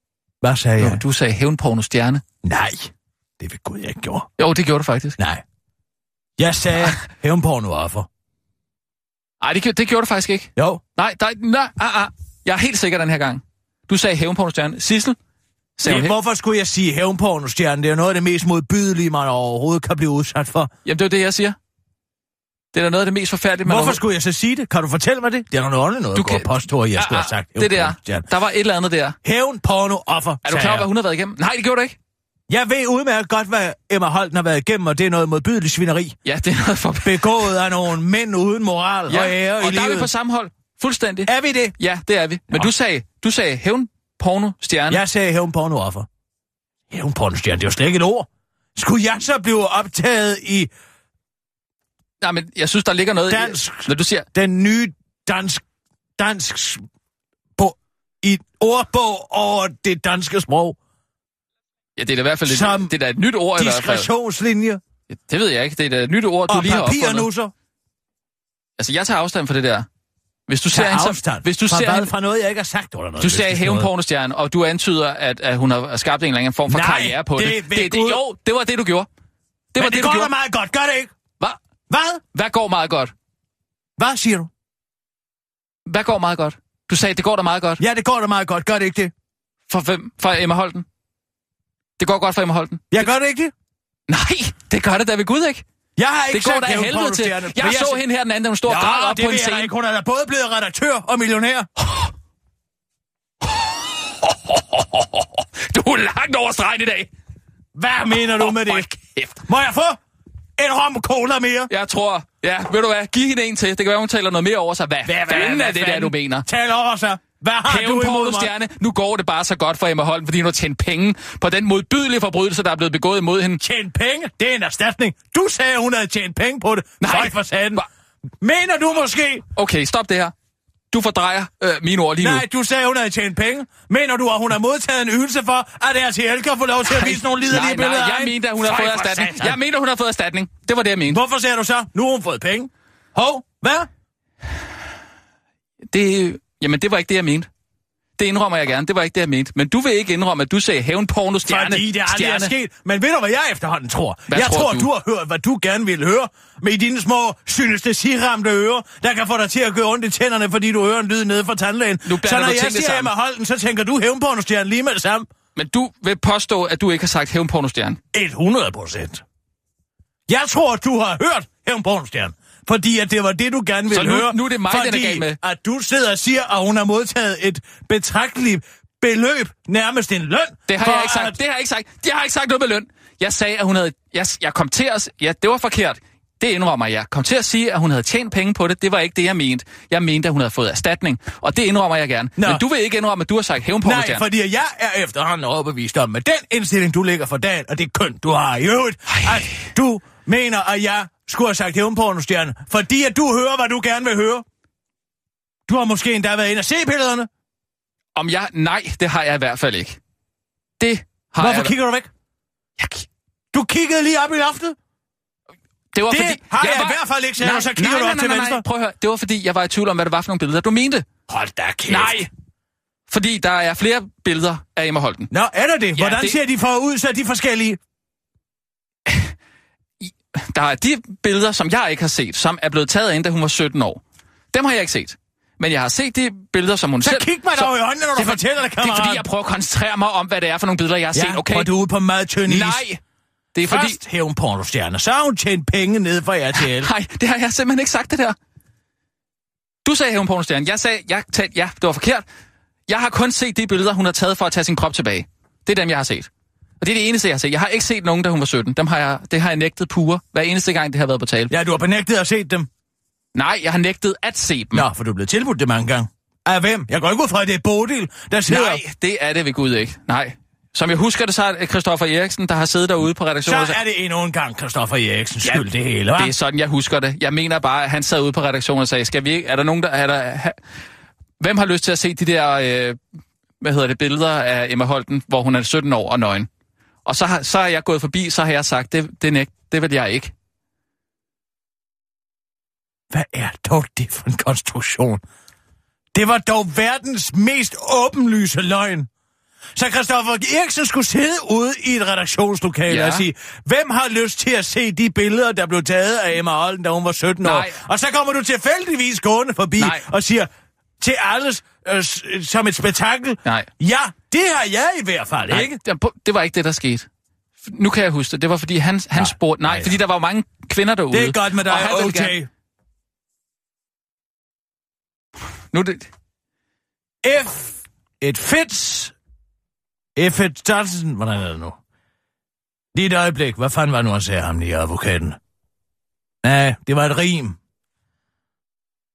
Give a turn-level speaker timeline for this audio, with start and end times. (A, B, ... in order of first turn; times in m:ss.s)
0:00.4-0:01.0 A
0:00.8-0:02.2 B
0:02.4-0:04.3 A
0:04.4-0:05.2 B
0:05.2-0:05.4 A
0:06.4-0:08.1 A
0:09.4-0:15.2 B
0:10.6-0:10.8 A
0:15.8-0:16.2 B
0:15.8-0:20.7 A
0:20.8-0:21.6 B
0:22.7-0:24.0 B
0:23.6-0:28.3 A
0:26.1-0:29.2 B
0:29.2-0:30.9 A
0:30.4-0:32.0 B
0:32.5-0:36.2 A
0:36.2-0:37.5 B
0:37.0-0:40.1 A
0:39.1-0:45.0 B
0:41.2-0:41.8 A
0:44.9-0:46.1 A
0:46.9-0:50.7 A
0:52.2-0:54.3 B
0:53.3-0:55.6 A
0:56.2-0:56.8 A
0:57.6-1:00.8 A
1:02.0-1:04.1 B
1:02.4-1:03.0 A
1:03.6-1:04.8 A
1:05.1-1:07.3 B
1:06.5-1:07.5 A
1:08.8-1:09.9 B
1:10.5-1:12.1 B
1:10.7-1:13.9 A
1:13.2-1:19.1 B
1:16.7-1:18.2 A
1:19.7-1:20.3 B
1:19.8-1:21.1 A
1:21.9-1:22.2 A
1:22.3-1:23.1 B
1:24.0-1:24.5 A
1:25.8-1:27.8 B
1:27.8-1:29.1 A
1:29.7-1:30.8 B
1:32.0-1:33.1 B
1:32.9-1:33.5 A
1:34.1-1:35.6 B
1:36.0-1:38.0 A
1:36.3-1:39.7 B
1:38.6-1:41.7 A
1:44.2-1:47.1 B
1:47.7-1:50.0 A
1:48.2-1:49.3 B
1:50.6-1:51.7 A
1:51.7-1:56.5 B
1:55.0-1:58.5 A
1:57.7-2:03.6 B
2:03.6-2:07.8 A
2:07.0-2:07.8 B
2:08.4-2:09.4 A
2:09.5-2:10.3 B
2:10.9-2:12.4 B
2:12.2-2:19.6 A
2:16.9-2:21.2 B
2:21.1-2:23.9 A
2:25.9-2:27.5 B
2:28.2-2:32.5 B
2:31.4-2:45.3 A
2:34.3-2:34.9 B
2:42.0-2:43.1 B
2:45.6-2:48.0 B
2:48.1-2:49.2 A
2:50.3-3:01.4 A
2:53.9-2:55.4 B
3:00.7-3:14.2 B
3:12.4-3:12.6 A
3:13.8-3:24.4 A
3:25.7-3:27.3 A
3:28.1-3:30.0 B
3:30.8-3:31.7 B
3:31.4-3:32.1 A
3:32.8-3:33.0 B
3:33.5-3:34.8 A
3:35.9-3:41.1 B
3:36.1-3:38.6 A
3:41.3-3:42.2 A
3:41.9-3:42.3 B
3:43.1-3:45.3 B
3:45.3-3:47.8 A
3:45.9-3:46.4 B
3:49.1-3:49.3 B
3:50.0-3:54.0 B
3:54.5-4:01.7 B
3:57.0-3:59.2 A
4:01.1-4:02.8 A
4:02.4-4:03.0 B
4:03.5-4:04.0 B
4:03.6-4:06.9 A
4:06.6-4:08.4 B
4:09.8-4:12.2 B
4:12.9-4:16.3 B
4:16.8-4:21.5 B
4:21.5-4:22.7 A
4:23.3-4:24.8 B
4:24.7-4:28.8 A
4:28.5-4:33.8 B
4:33.4-4:36.3 A
4:36.2-4:40.6 B
4:41.4-4:43.0 B
4:43.6-4:46.5 B
4:47.0-4:50.3 B
4:53.1-4:55.2 A
4:56.1-4:59.1 A
4:59.8-5:10.5 A
5:02.9-5:03.2 B
5:07.4-5:07.8 B
5:09.8-5:10.0 B
5:11.0-5:15.8 A
5:15.5-5:17.1 B
5:17.6-5:22.4 B
5:19.2-5:19.9 A
5:21.1-5:22.5 A
5:25.7-5:26.1 B
5:27.2-5:29.1 A
5:30.2-5:31.8 A
5:32.9-5:35.4 A
5:36.4-5:37.6 A